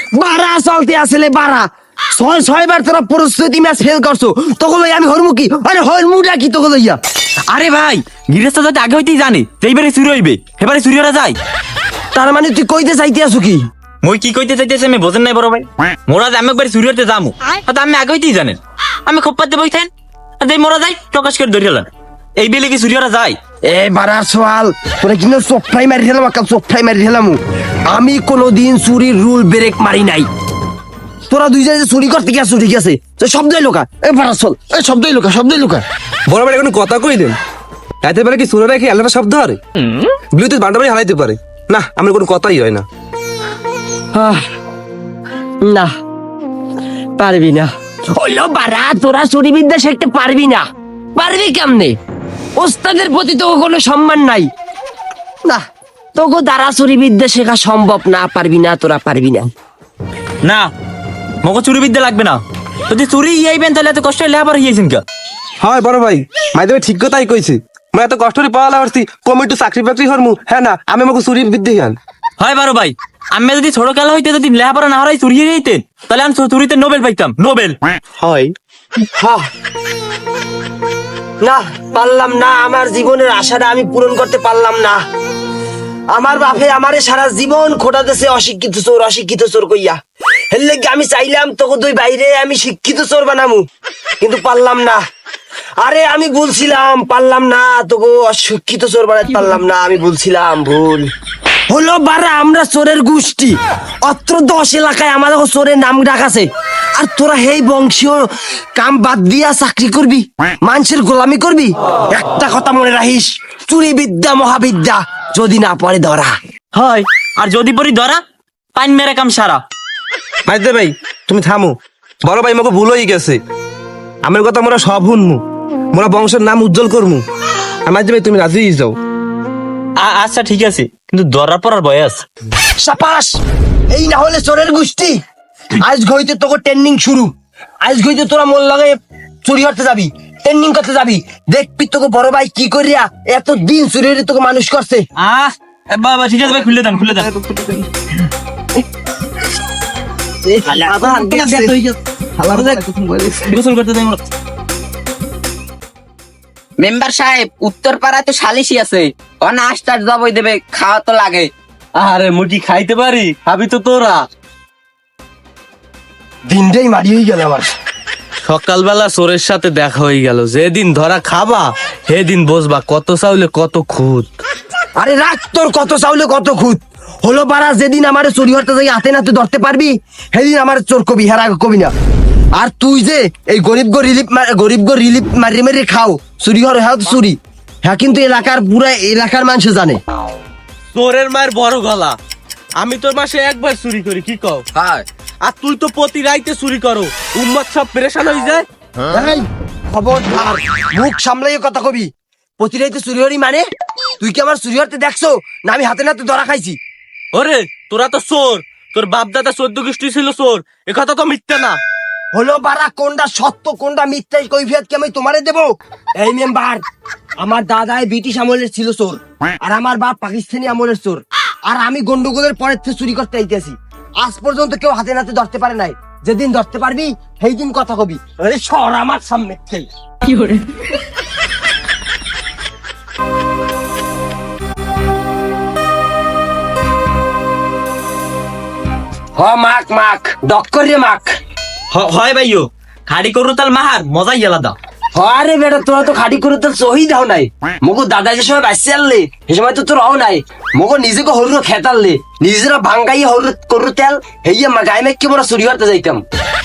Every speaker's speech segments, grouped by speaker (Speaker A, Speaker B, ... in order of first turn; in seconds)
Speaker A: 0.1-7.0, 12.1-13.6, 23.7-30.3, 31.3-35.8, 44.1-44.4, 45.6-45.9, 47.2-50.6, 51.2-52.0, 52.6-54.5, 56.1-59.5, 79.2-79.4, 81.4-85.0, 86.1-90.0, 90.5-93.6, 94.2-95.0, 95.8-101.1, 101.7-106.5, 107.0-116.3, 132.8-133.3, 133.9-135.2, 135.8-145.0, 150.4-153.4, 166.5-167.7, 174.9-181.9, 182.6-190.0, 199.1-203.6, 204.2-206.8, 212.3-216.8, 217.4-229.9, 239.4-241.3, 245.2-256.2
Speaker B: 7.5-11.4, 14.0-23.4, 60.4-60.7, 61.4-65.0, 72.4-77.8, 116.8-118.2, 118.8-119.6, 130.0-132.2, 145.2-147.3, 153.5-154.2, 241.9-244.8
Speaker C: 36.3-37.4, 38.0-39.6, 40.3-42.9, 65.6-72.0, 120.5-123.4, 124.2-125.4, 125.9-127.2, 127.9-128.9, 151.2-151.6
Speaker D: 150.9-151.4, 156.8-161.5
Speaker E: 161.9-164.3, 168.4-174.3, 190.9-192.2, 192.8-198.7, 207.3-211.8